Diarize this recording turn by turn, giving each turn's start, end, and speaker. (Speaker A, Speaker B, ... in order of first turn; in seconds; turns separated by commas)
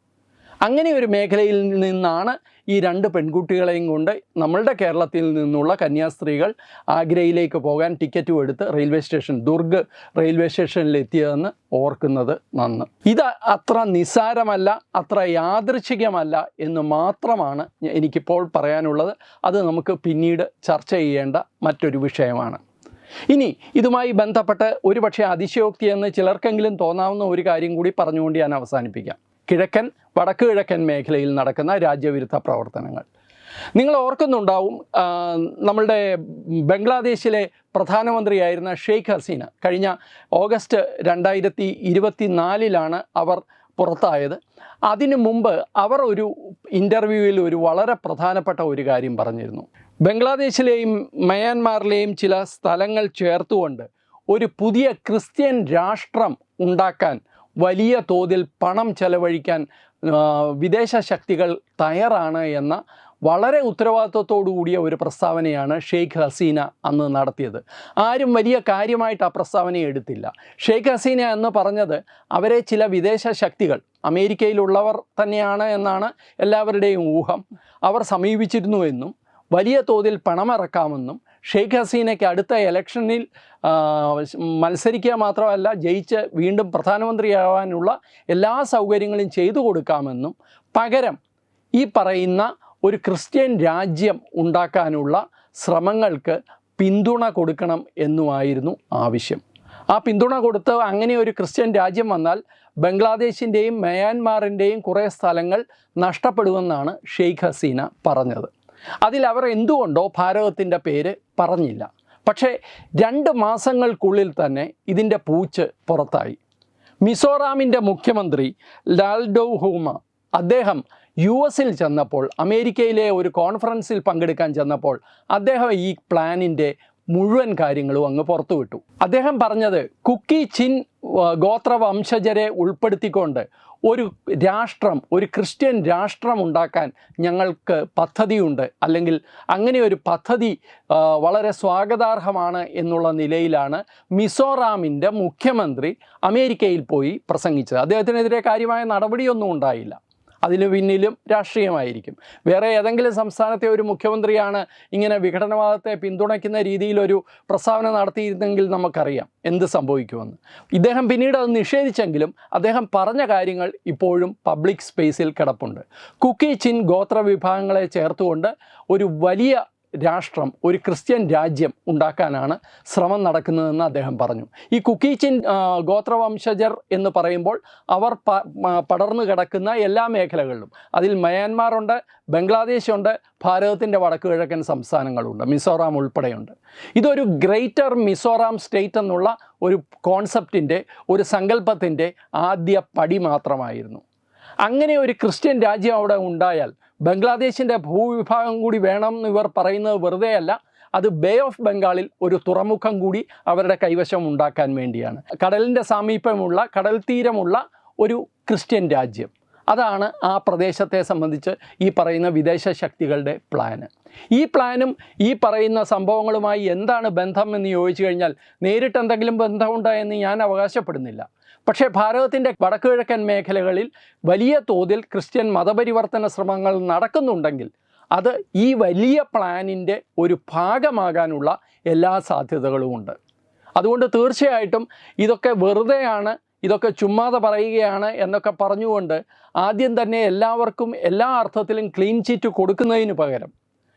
Speaker A: 0.7-22.6, Speaker A: 23.3-33.0, Speaker A: 33.8-91.2, Speaker A: 91.8-108.5, Speaker A: 109.0-116.4, Speaker A: 117.0-194.0, Speaker A: 194.6-233.2, Speaker A: 233.8-243.5